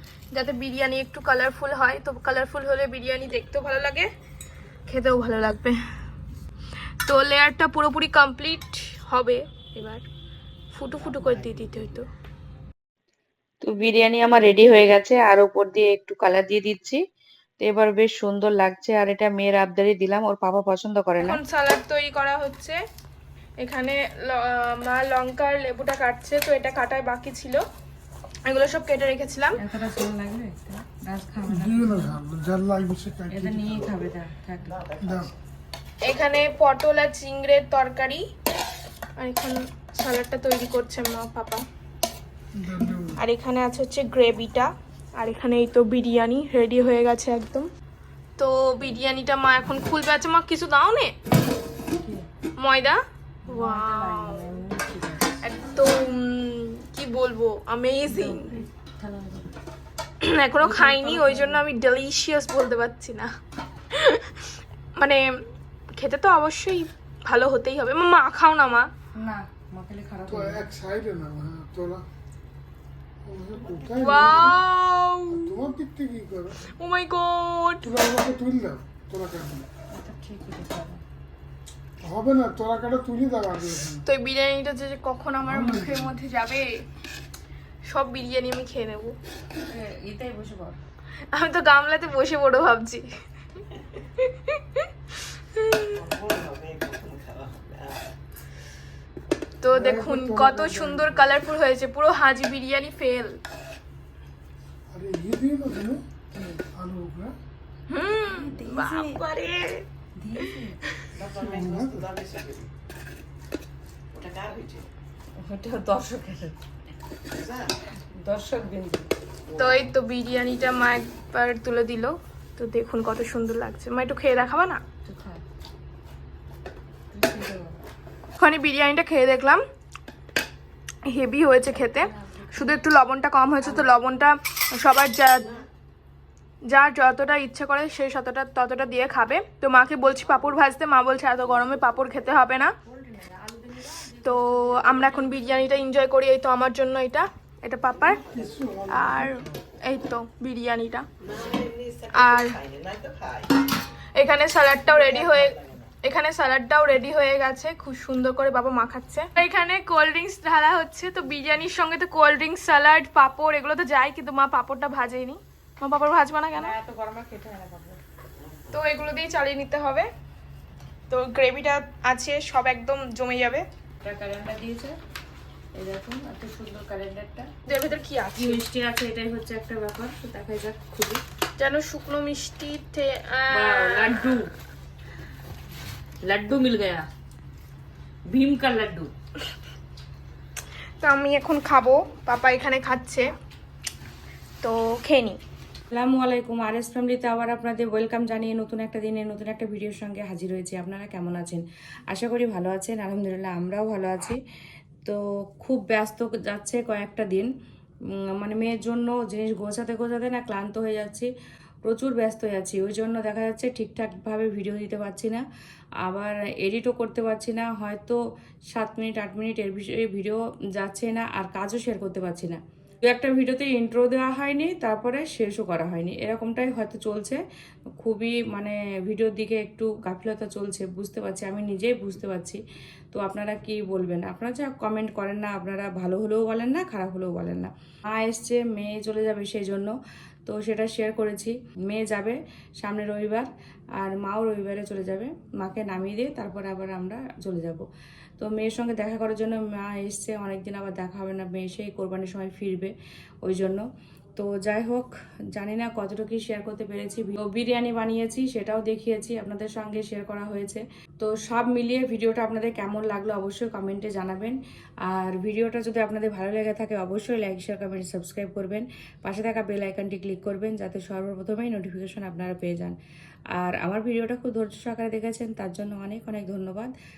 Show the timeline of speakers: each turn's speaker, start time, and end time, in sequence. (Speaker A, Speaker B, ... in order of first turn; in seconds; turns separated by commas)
Speaker A: 0.3-4.1, Speaker A: 4.9-5.8, Speaker A: 7.0-10.1, Speaker A: 10.7-12.1, Speaker B: 10.9-12.0, Speaker C: 13.6-17.0, Speaker C: 17.6-21.4, Speaker A: 21.2-22.8, Speaker A: 23.6-27.6, Speaker A: 28.5-29.6, Speaker C: 29.6-32.2, Speaker D: 31.5-33.9, Speaker C: 33.3-34.8, Speaker B: 34.6-35.4, Speaker D: 35.0-35.3, Speaker A: 36.0-38.2, Speaker A: 39.2-41.6, Speaker D: 42.5-43.2, Speaker A: 43.1-47.7, Speaker A: 48.4-51.1, Speaker C: 51.9-52.3, Speaker A: 52.6-54.4, Speaker C: 53.5-55.5, Speaker A: 55.4-58.6, Speaker C: 58.1-59.5, Speaker A: 60.2-63.3, Speaker C: 60.6-61.6, Speaker A: 63.9-65.2, Speaker A: 66.0-68.9, Speaker C: 69.2-70.7, Speaker D: 70.3-72.0, Speaker D: 73.2-74.6, Speaker B: 73.5-74.5, Speaker A: 74.0-75.5, Speaker D: 75.3-76.6, Speaker A: 76.6-77.9, Speaker D: 77.8-79.7, Speaker C: 79.9-81.0, Speaker D: 82.0-84.0, Speaker A: 84.0-86.7, Speaker D: 85.5-86.1, Speaker A: 87.9-89.2, Speaker C: 89.6-90.8, Speaker A: 91.3-93.1, Speaker A: 94.2-95.9, Speaker B: 95.9-98.1, Speaker A: 99.6-103.4, Speaker D: 99.7-101.4, Speaker D: 104.9-106.0, Speaker C: 106.3-106.6, Speaker D: 106.7-107.3, Speaker A: 107.9-109.8, Speaker C: 108.3-109.2, Speaker C: 110.2-110.8, Speaker B: 111.1-112.7, Speaker D: 111.4-112.1, Speaker B: 114.1-114.9, Speaker C: 115.4-116.6, Speaker B: 117.3-117.8, Speaker C: 118.1-119.1, Speaker B: 119.5-119.9, Speaker A: 119.6-124.8, Speaker C: 125.0-125.4, Speaker C: 127.1-127.8, Speaker A: 128.4-129.6, Speaker A: 131.1-135.6, Speaker C: 131.7-132.8, Speaker C: 133.6-134.0, Speaker A: 136.7-142.7, Speaker C: 142.8-145.9, Speaker A: 144.2-148.2, Speaker B: 147.9-149.0, Speaker D: 148.1-149.6, Speaker A: 148.9-151.1, Speaker B: 151.2-153.6, Speaker A: 152.2-152.5, Speaker A: 154.2-166.8, Speaker B: 154.8-155.9, Speaker C: 166.6-168.0, Speaker B: 168.4-168.7, Speaker A: 168.7-170.1, Speaker A: 171.1-173.7, Speaker C: 174.0-175.0, Speaker C: 175.8-177.5, Speaker A: 177.7-178.6, Speaker C: 178.4-181.2, Speaker A: 181.6-184.3, Speaker C: 183.5-184.5, Speaker C: 186.2-187.1, Speaker C: 188.3-189.1, Speaker A: 191.0-193.3, Speaker A: 194.6-195.4, Speaker C: 195.9-204.4, Speaker C: 205.1-207.5, Speaker C: 208.4-211.3, Speaker C: 211.8-215.4, Speaker C: 216.0-218.2, Speaker C: 218.7-227.4, Speaker C: 228.0-232.6, Speaker C: 233.1-239.9, Speaker C: 240.5-247.8, Speaker C: 248.4-253.8, Speaker C: 254.4-273.0, Speaker C: 273.6-276.9